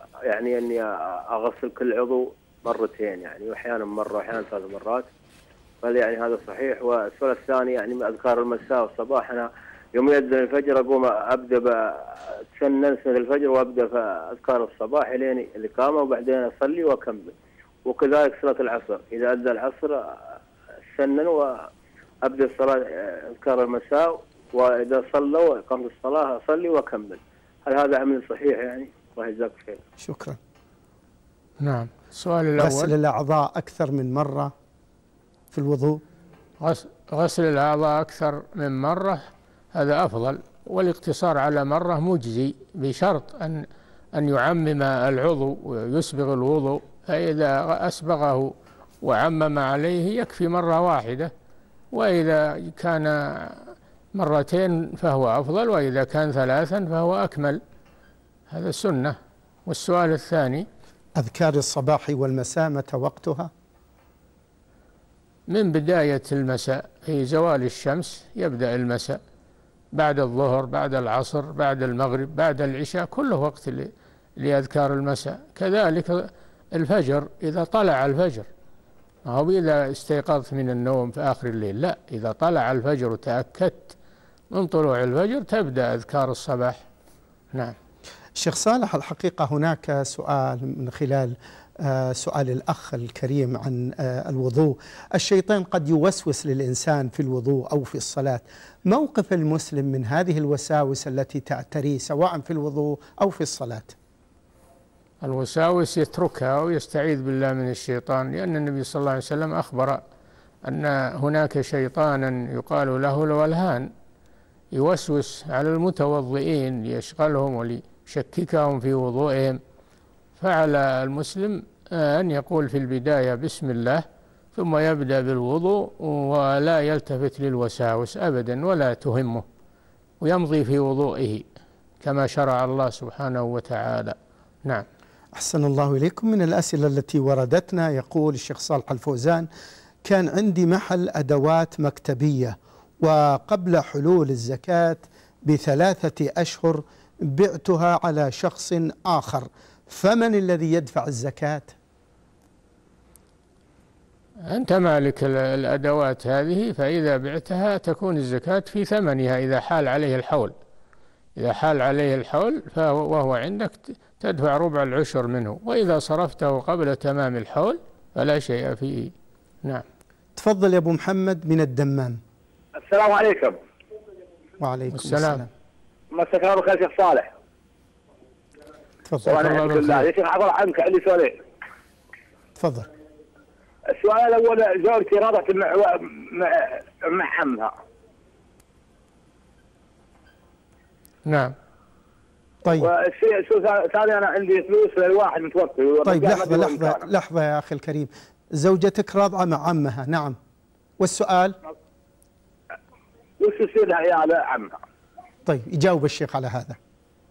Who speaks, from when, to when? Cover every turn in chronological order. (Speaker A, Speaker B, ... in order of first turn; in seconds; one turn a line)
Speaker A: 0.2-5.0
Speaker A: 5.8-17.3
Speaker A: 17.9-20.1
Speaker A: 20.9-21.7
Speaker A: 22.2-29.8
Speaker B: 30.0-30.4
Speaker C: 31.6-32.9
Speaker B: 32.6-34.5
Speaker B: 35.5-36.0
Speaker C: 36.6-51.3
Speaker C: 51.9-57.6
Speaker C: 58.5-60.7
Speaker B: 61.2-63.5
Speaker C: 65.5-69.2
Speaker C: 69.9-78.5
Speaker C: 79.2-83.9
Speaker C: 84.5-86.8
Speaker B: 88.3-103.9
Speaker C: 105.2-110.0
Speaker C: 110.6-113.9
Speaker C: 114.7-119.6
Speaker C: 120.4-129.4
Speaker C: 130.2-131.4
Speaker C: 132.0-134.8
Speaker B: 135.3-139.5
Speaker B: 140.0-151.7
Speaker C: 154.5-160.5
Speaker C: 161.3-169.8
Speaker B: 170.3-172.2
Speaker D: 172.8-173.6
Speaker B: 174.6-175.5
Speaker C: 174.9-175.4
Speaker D: 176.1-177.3
Speaker B: 179.1-179.4
Speaker D: 179.2-181.4
Speaker C: 179.3-180.0
Speaker B: 182.6-182.9
Speaker D: 183.9-187.7
Speaker C: 191.2-191.5
Speaker D: 192.8-197.1
Speaker B: 196.0-200.4
Speaker B: 201.0-201.6
Speaker D: 203.4-204.8
Speaker B: 205.4-206.8